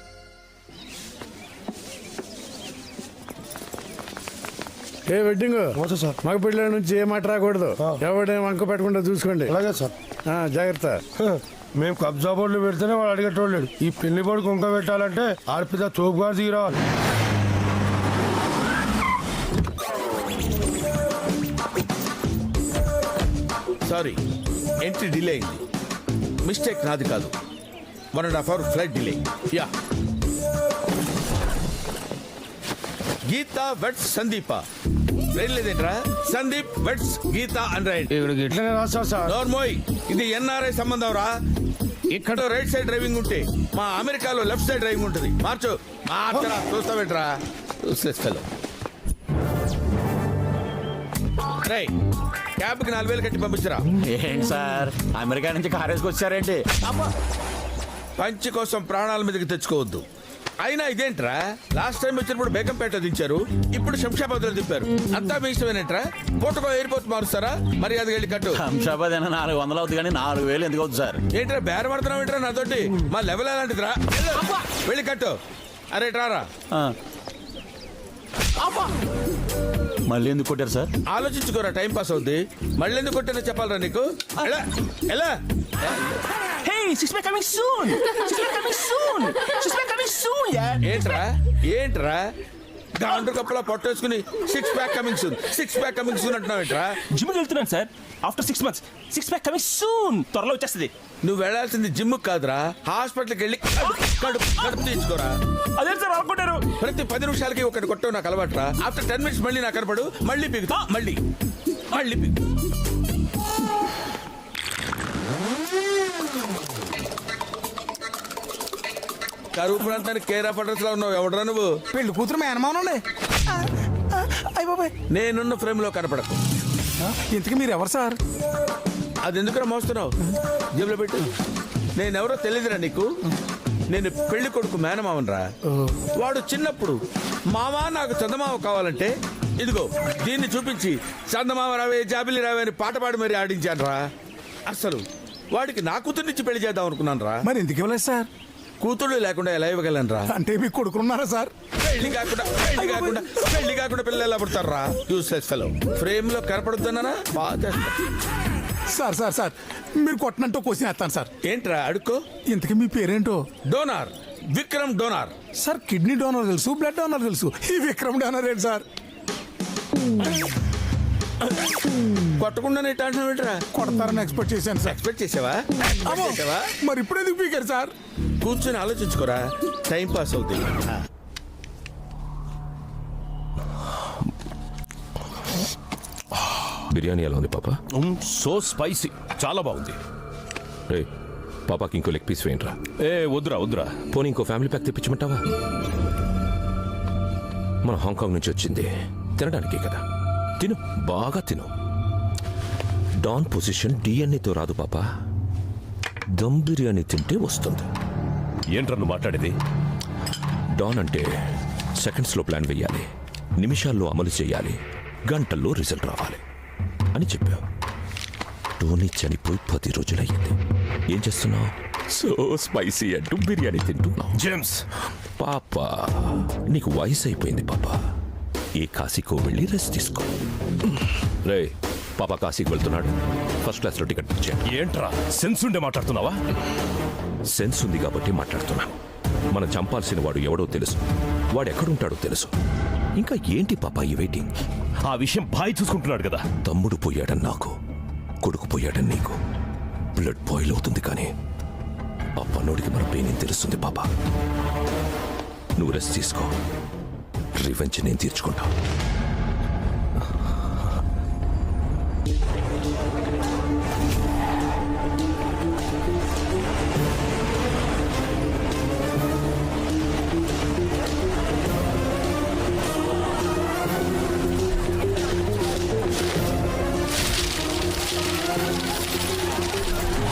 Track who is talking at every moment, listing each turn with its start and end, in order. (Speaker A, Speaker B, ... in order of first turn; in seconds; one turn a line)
Speaker A: 5.1-9.6
Speaker B: 5.8-6.2
Speaker B: 9.5-9.9
Speaker A: 10.3-11.0
Speaker B: 11.2-16.8
Speaker C: 23.9-24.2
Speaker C: 24.8-25.6
Speaker C: 26.4-27.3
Speaker C: 28.1-29.7
Speaker C: 33.3-34.6
Speaker C: 35.4-38.3
Speaker B: 38.7-39.3
Speaker C: 39.2-41.3
Speaker C: 42.1-48.4
Speaker C: 51.6-51.9
Speaker C: 52.6-53.9
Speaker D: 54.1-57.1
Speaker C: 58.2-60.0
Speaker C: 60.6-68.6
Speaker D: 68.6-71.2
Speaker C: 71.3-75.4
Speaker C: 75.9-76.5
Speaker D: 80.1-80.9
Speaker C: 81.1-86.2
Speaker E: 86.6-90.9
Speaker C: 90.8-92.3
Speaker C: 93.0-97.0
Speaker E: 97.1-100.9
Speaker C: 101.2-105.4
Speaker E: 105.8-106.7
Speaker C: 106.8-111.2
Speaker C: 111.9-112.4
Speaker C: 119.5-121.8
Speaker F: 121.9-123.0
Speaker F: 124.4-124.9
Speaker C: 125.1-126.4
Speaker F: 127.3-128.2
Speaker C: 129.2-130.1
Speaker C: 130.8-131.3
Speaker C: 132.0-133.1
Speaker C: 133.9-135.5
Speaker C: 136.2-137.0
Speaker C: 137.5-144.1
Speaker C: 144.7-147.4
Speaker F: 147.4-148.3
Speaker C: 148.8-150.3
Speaker F: 150.3-151.5
Speaker C: 151.8-158.0
Speaker F: 158.9-161.3
Speaker C: 161.4-162.2
Speaker F: 162.5-163.5
Speaker C: 163.7-165.3
Speaker F: 165.6-168.8
Speaker C: 172.4-173.6
Speaker F: 173.8-174.9
Speaker C: 174.9-176.7
Speaker F: 176.1-177.9
Speaker C: 178.4-180.9
Speaker G: 186.9-187.8
Speaker H: 188.0-189.9
Speaker G: 191.7-192.8
Speaker H: 193.0-194.0
Speaker G: 193.9-195.4
Speaker G: 197.8-200.0
Speaker G: 200.6-201.7
Speaker G: 203.2-205.0
Speaker G: 206.4-207.9
Speaker H: 208.7-209.5
Speaker G: 210.8-211.3
Speaker G: 212.0-213.1
Speaker G: 213.6-216.4
Speaker G: 217.1-217.7
Speaker G: 218.8-220.6
Speaker G: 221.1-224.4
Speaker H: 224.5-224.7
Speaker G: 225.4-228.0
Speaker G: 228.8-230.3
Speaker G: 231.5-234.6
Speaker H: 234.7-236.4
Speaker G: 237.5-239.0
Speaker G: 239.5-241.0
Speaker G: 241.5-242.5
Speaker G: 243.2-244.5
Speaker H: 245.1-246.5
Speaker G: 246.6-247.7
Speaker G: 248.4-249.4
Speaker G: 250.2-251.3
Speaker G: 252.4-254.1
Speaker G: 255.8-256.5
Speaker G: 257.6-258.7